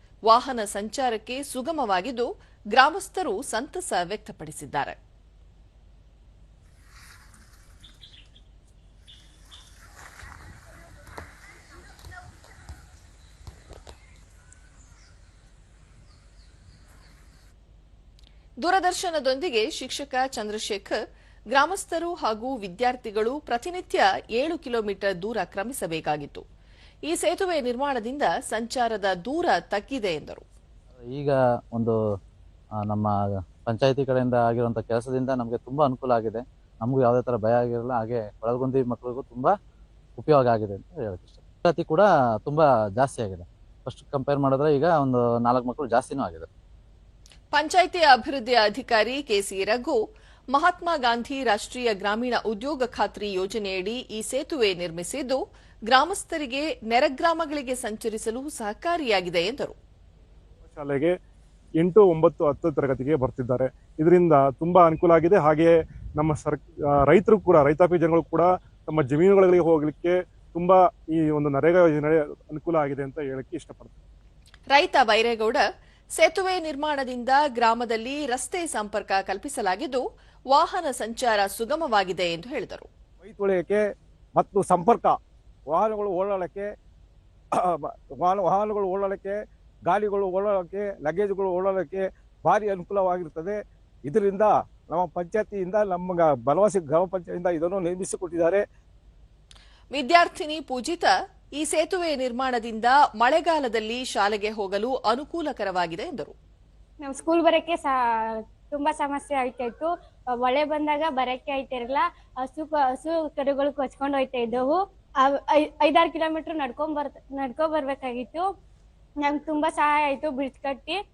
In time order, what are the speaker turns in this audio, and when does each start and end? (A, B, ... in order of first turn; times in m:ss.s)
0:00.3-0:05.0 A
0:18.6-0:21.0 A
0:21.5-0:26.4 A
0:27.1-0:30.4 A
0:31.1-0:32.0 B
0:32.8-0:39.5 B
0:40.2-0:46.5 B
0:47.5-0:50.0 A
0:50.5-0:59.8 A
1:00.7-1:01.1 C
1:01.8-1:14.0 C
1:14.7-1:22.9 A
1:23.2-1:23.8 D
1:24.4-1:25.2 D
1:25.7-1:26.7 D
1:27.8-1:29.4 D
1:29.9-1:38.6 D
1:39.9-1:46.3 A
1:47.0-1:47.9 E
1:48.6-1:58.5 E
1:59.2-2:01.0 E